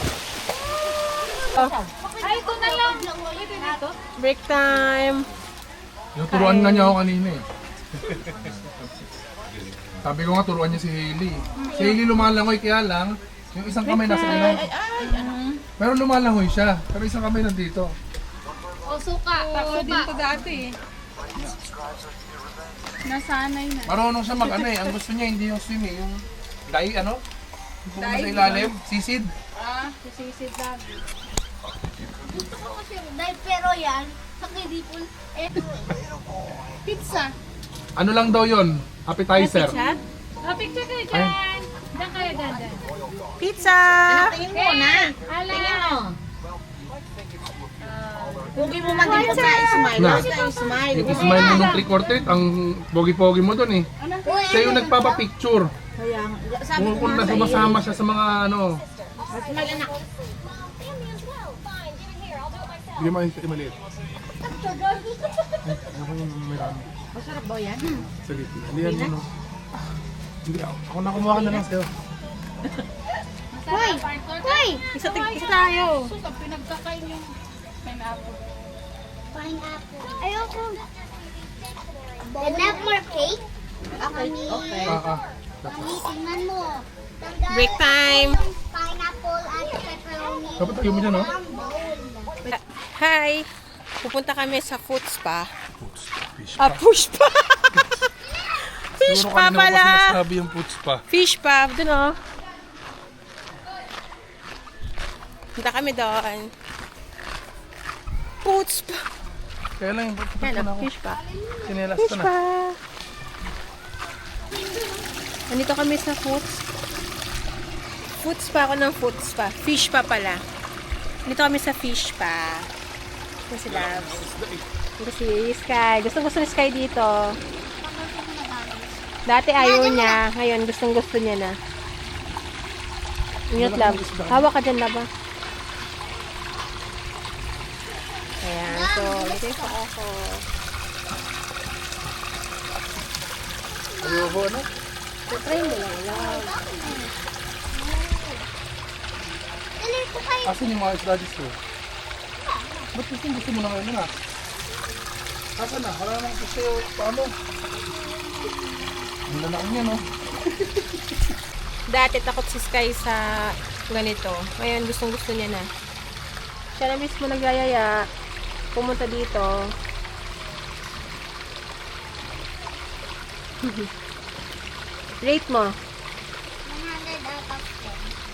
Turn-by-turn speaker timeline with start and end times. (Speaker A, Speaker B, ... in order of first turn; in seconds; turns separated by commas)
Speaker A: 2.1-4.0, Speaker B: 2.2-3.8, Speaker C: 4.2-5.2, Speaker D: 6.2-7.4, Speaker C: 6.3-7.0, Speaker D: 8.0-8.5, Speaker D: 10.0-14.7, Speaker A: 11.6-12.0, Speaker C: 13.8-15.2, Speaker A: 14.3-15.6, Speaker D: 15.8-18.0, Speaker A: 18.9-20.8, Speaker C: 19.4-20.4, Speaker A: 23.1-24.0, Speaker D: 23.9-27.2, Speaker D: 27.9-29.3, Speaker A: 28.0-28.7, Speaker A: 29.6-31.0, Speaker D: 38.0-39.8, Speaker C: 39.4-40.0, Speaker A: 40.4-42.9, Speaker D: 41.1-41.4, Speaker C: 43.4-44.4, Speaker E: 44.1-46.2, Speaker A: 44.5-46.0, Speaker A: 47.9-52.1, Speaker E: 48.5-51.7, Speaker B: 49.0-50.0, Speaker C: 49.0-49.6, Speaker D: 49.9-50.3, Speaker D: 50.9-53.9, Speaker A: 54.0-54.5, Speaker B: 54.3-55.2, Speaker D: 54.5-55.7, Speaker E: 56.0-57.8, Speaker D: 56.7-58.9, Speaker C: 57.3-57.7, Speaker E: 59.3-59.9, Speaker B: 60.9-61.3, Speaker D: 63.0-63.8, Speaker A: 64.8-65.1, Speaker D: 65.7-66.9, Speaker E: 67.2-68.0, Speaker D: 68.2-69.3, Speaker D: 70.5-71.9, Speaker A: 73.5-78.5, Speaker B: 73.7-74.8, Speaker C: 74.9-76.1, Speaker B: 79.3-80.9, Speaker B: 82.2-83.5, Speaker E: 84.0-85.0, Speaker B: 84.0-85.0, Speaker D: 84.8-86.1, Speaker B: 85.6-92.3, Speaker C: 87.5-88.4, Speaker D: 90.6-91.3, Speaker C: 92.4-93.5, Speaker C: 94.0-95.5, Speaker D: 95.8-96.8, Speaker C: 96.6-97.8, Speaker C: 99.0-100.2, Speaker D: 99.0-101.0, Speaker C: 101.1-102.2, Speaker C: 105.6-106.5, Speaker C: 108.4-109.0, Speaker D: 109.8-110.9, Speaker C: 110.4-111.2, Speaker D: 111.7-112.3, Speaker C: 112.0-112.8, Speaker C: 115.5-116.6, Speaker C: 118.2-120.4, Speaker C: 121.3-122.7, Speaker C: 123.5-124.2, Speaker D: 123.7-124.7, Speaker C: 125.0-127.4, Speaker B: 127.8-129.0, Speaker C: 129.3-131.6, Speaker B: 129.6-130.2, Speaker C: 133.5-135.1, Speaker D: 133.6-134.5, Speaker C: 138.4-140.4, Speaker B: 138.7-139.8, Speaker B: 143.7-144.4, Speaker D: 144.0-144.7, Speaker C: 145.3-146.6, Speaker B: 146.1-147.1, Speaker B: 147.7-148.4, Speaker B: 149.8-150.6, Speaker D: 150.4-151.6, Speaker B: 152.4-152.9, Speaker D: 153.0-154.1, Speaker D: 155.6-157.3, Speaker B: 157.7-159.0, Speaker D: 159.3-160.0, Speaker C: 161.9-165.7, Speaker C: 166.8-168.1, Speaker C: 168.7-169.5, Speaker C: 173.6-173.9, Speaker C: 175.2-175.8, Speaker B: 176.7-178.1